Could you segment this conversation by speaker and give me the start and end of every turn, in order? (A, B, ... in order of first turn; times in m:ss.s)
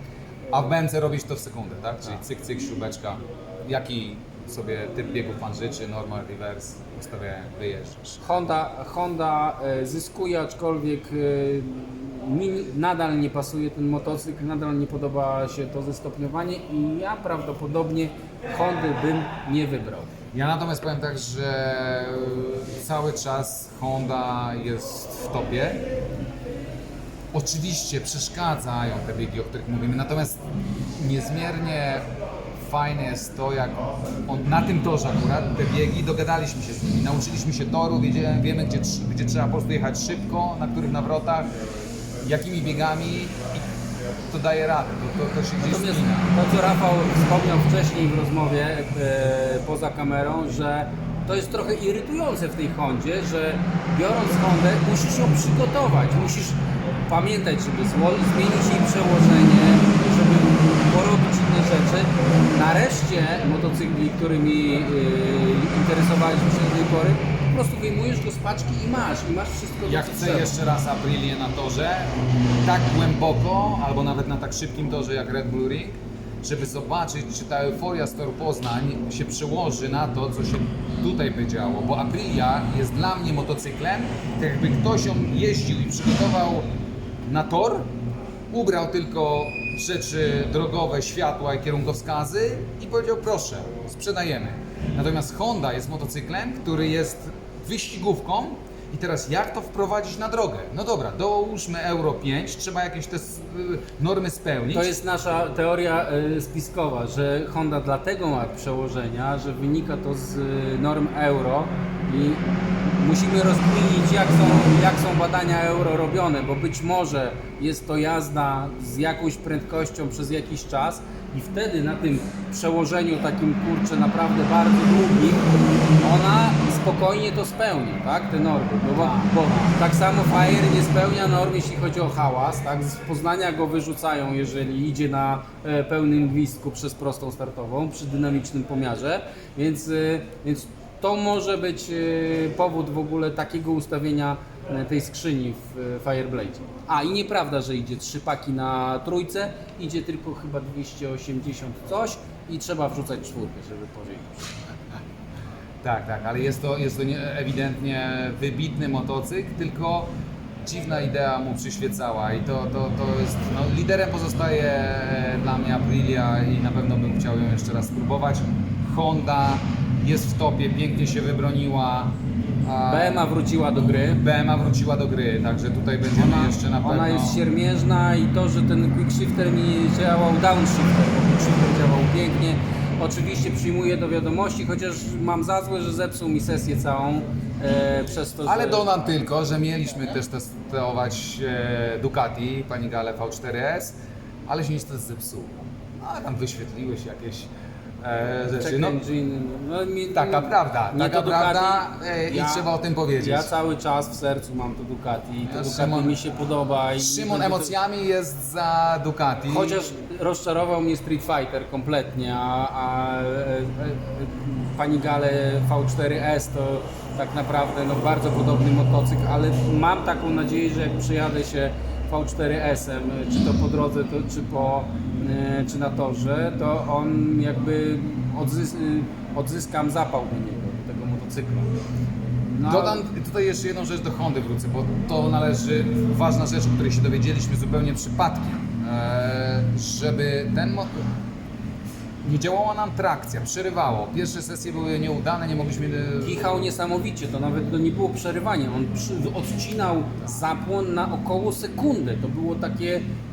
0:00.5-0:08.2 A
0:08.2-0:20.1 B
0:20.3-0:25.8 A
0:27.3-0:30.4 A
0:31.0-0:32.0 A
0:32.6-0:41.5 A
0:42.2-0:43.6 A
0:44.3-0:46.3 A
0:45.6-1:10.5 B
1:09.8-1:26.7 A
1:27.3-1:27.9 A
1:28.5-1:44.9 A
1:44.7-2:34.6 B
2:09.0-2:09.4 A
2:35.8-2:53.3 A
2:52.9-2:54.2 B
2:54.0-2:57.4 A
2:56.0-3:09.0 B
3:08.5-3:19.0 A
3:18.6-3:27.8 B
3:20.1-3:23.5 A
3:25.4-3:26.2 A
3:27.0-3:29.8 A
3:29.5-3:51.7 B
3:52.5-3:53.0 B
3:52.7-4:01.1 A
4:02.2-4:06.5 A
4:06.2-4:13.1 B